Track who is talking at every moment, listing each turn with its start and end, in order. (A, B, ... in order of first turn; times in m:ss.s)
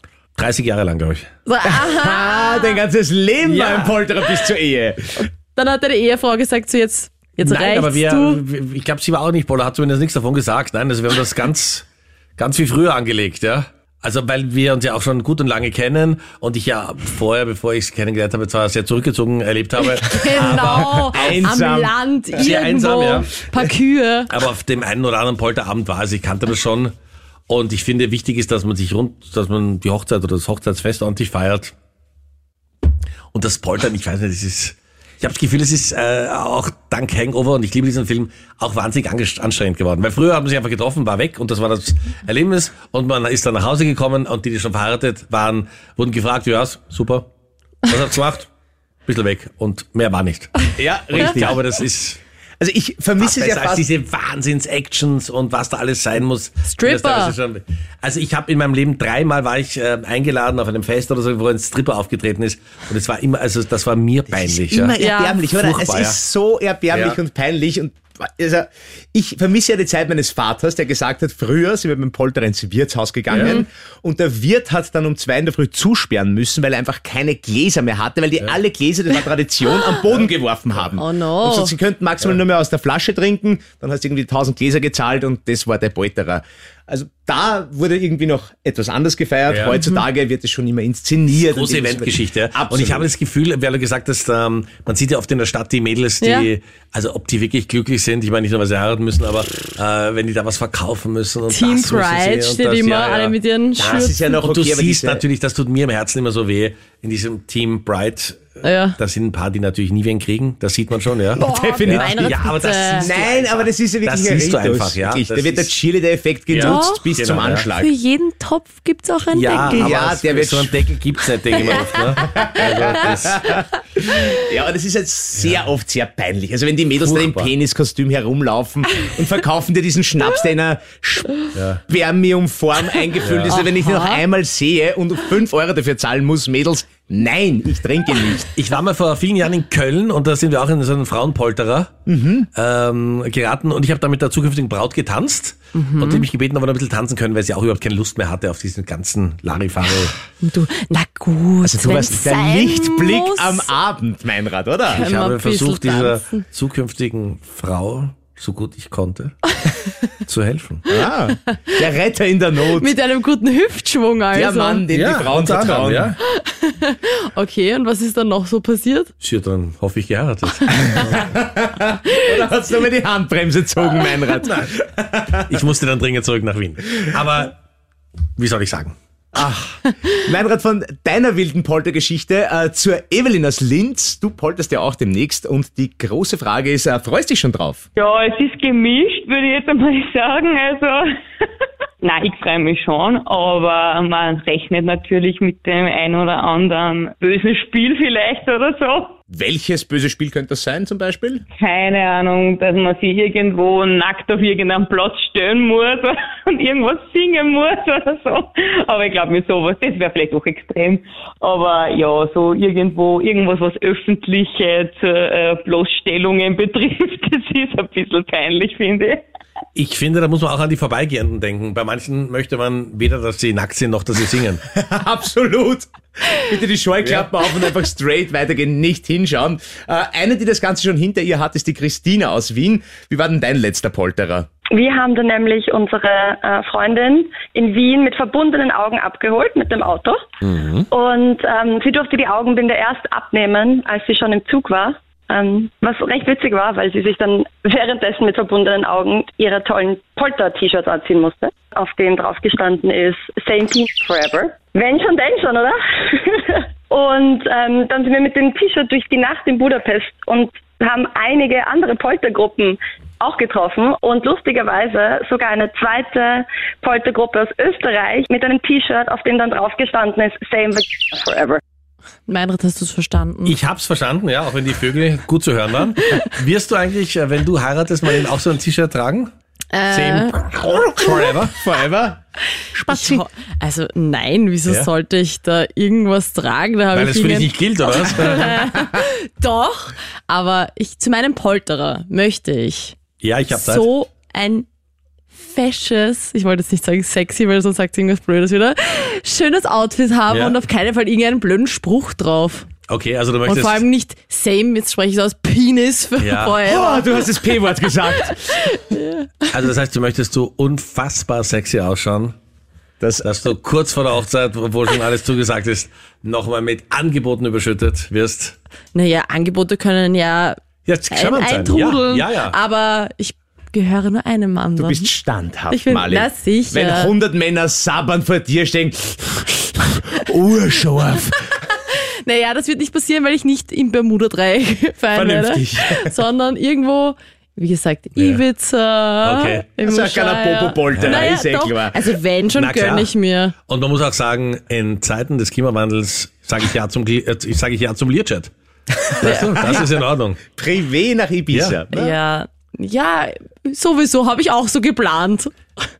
0:00.4-0:01.3 A
0:01.4-0:02.8 B
0:01.6-0:05.3 C
0:03.4-0:04.0 A
0:05.5-0:08.4 B
0:07.4-0:11.8 A
0:12.4-0:21.4 A
0:19.9-0:24.3 B
0:20.4-0:21.9 C
0:22.4-0:23.4 A
0:24.3-0:26.9 A
0:27.5-0:31.7 A
0:33.3-0:47.3 A
0:47.9-0:48.5 A
0:49.1-0:52.2 A
0:50.8-0:51.6 C
0:52.6-0:53.8 C
0:53.2-1:05.0 A
0:56.6-0:57.3 B
1:04.3-1:33.1 C
1:05.0-1:05.5 B
1:05.5-1:06.2 A
1:06.9-1:07.2 A
1:13.3-1:13.6 B
1:13.3-1:13.6 A
1:21.0-1:21.7 B
1:29.5-1:29.8 A
1:29.7-1:30.0 B
1:31.3-1:55.7 A
1:36.2-1:36.5 B
1:41.5-1:44.2 B
1:43.8-1:45.2 C
1:48.6-1:49.0 B
1:51.4-1:52.4 C
1:51.4-1:53.2 B
1:53.0-1:57.9 C
1:56.5-1:57.7 A
1:56.6-1:57.0 B
1:57.7-1:59.9 B
1:59.3-2:03.4 A
1:59.7-2:00.8 C
2:01.6-2:18.5 C
2:05.4-2:05.6 A
2:07.0-2:07.5 A
2:11.5-2:11.8 A
2:13.2-2:13.6 A
2:13.5-2:14.2 B
2:18.6-2:21.9 A
2:22.1-2:22.5 C
2:22.5-2:30.1 A
2:25.7-2:26.2 B
2:30.4-2:33.7 B
2:31.6-2:35.0 C
2:34.9-2:36.4 B
2:34.9-2:39.5 A
2:40.0-2:40.9 A
2:40.9-2:43.0 C
2:42.7-2:44.8 B
2:44.3-2:46.1 C
2:44.9-2:46.2 A
2:46.3-2:49.1 B
2:49.2-2:51.3 A
2:50.8-2:55.6 C
2:54.4-2:54.7 A
2:55.5-2:57.5 A
2:58.4-2:58.9 A
2:59.3-3:07.8 C
3:08.0-3:11.4 D
3:12.0-3:19.2 D
3:19.3-3:21.4 C
3:21.6-3:39.2 D
3:39.7-3:44.6 A
3:44.7-3:54.5 C
3:47.0-3:47.3 A
3:54.7-4:00.2 E
4:00.4-4:00.9 A
4:00.9-4:31.6 E
4:32.3-4:33.5 B
4:33.4-4:39.3 A
4:39.7-4:40.4 B
4:39.9-4:41.6 A
4:40.6-4:42.2 C
4:42.7-4:43.2 C
4:42.8-4:53.0 B
4:46.9-4:48.6 A
4:53.2-4:53.9 A
4:53.5-4:54.7 B
4:55.4-5:02.7 B
5:00.3-5:00.6 A
5:02.9-5:03.8 A
5:03.4-5:07.4 B
5:06.2-5:06.7 A
5:06.6-5:08.7 C
5:08.2-5:09.3 B
5:09.5-5:12.4 A
5:13.0-5:13.3 C
5:13.2-5:18.6 A
5:18.9-5:20.6 B
5:20.8-5:22.5 A
5:21.1-5:25.1 B
5:24.8-5:31.4 C
5:25.7-5:27.1 B
5:31.5-5:43.5 B
5:35.1-5:36.2 C
5:38.2-5:38.4 A
5:39.2-5:39.7 A
5:39.8-5:42.1 C
5:40.9-5:41.3 A
5:42.5-5:43.1 A
5:43.7-5:48.5 A
5:49.1-5:50.4 A
5:49.2-5:49.8 B
5:49.6-5:49.8 C
5:50.5-5:52.2 C
5:51.5-5:51.8 A
5:51.9-5:55.5 B